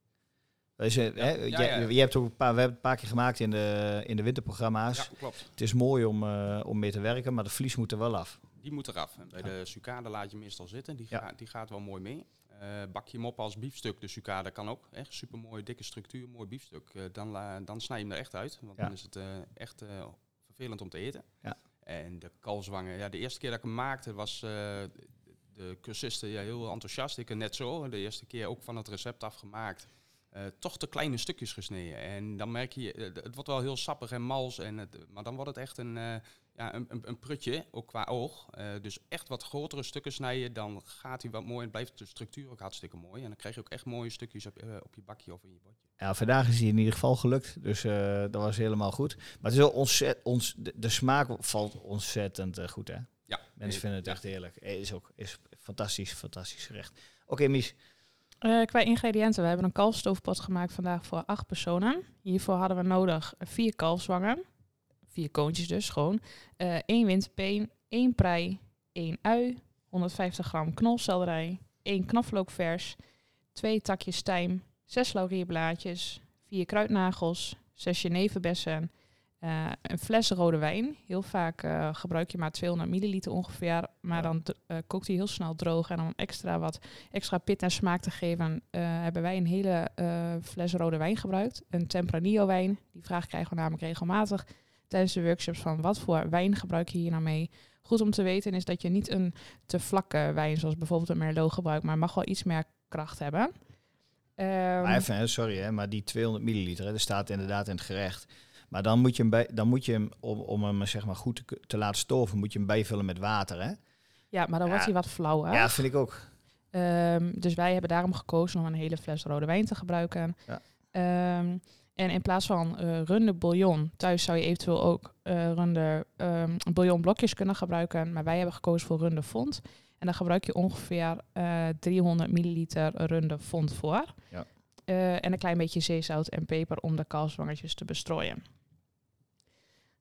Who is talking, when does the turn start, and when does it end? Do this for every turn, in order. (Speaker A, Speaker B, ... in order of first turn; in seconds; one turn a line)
Speaker A: 0.8-8.4
Speaker B: 1.2-1.9
Speaker B: 4.9-5.5
Speaker B: 8.6-21.3
Speaker B: 21.8-45.8
Speaker A: 46.0-57.8
Speaker B: 53.3-53.8
Speaker C: 58.4-64.4
Speaker C: 65.1-73.0
Speaker C: 73.5-78.9
Speaker C: 79.4-103.5
Speaker C: 104.4-105.0
Speaker A: 104.8-113.8
Speaker C: 114.3-115.8
Speaker A: 114.7-114.9
Speaker A: 115.5-116.3
Speaker C: 116.7-120.4
Speaker C: 120.9-134.1
Speaker C: 134.9-138.4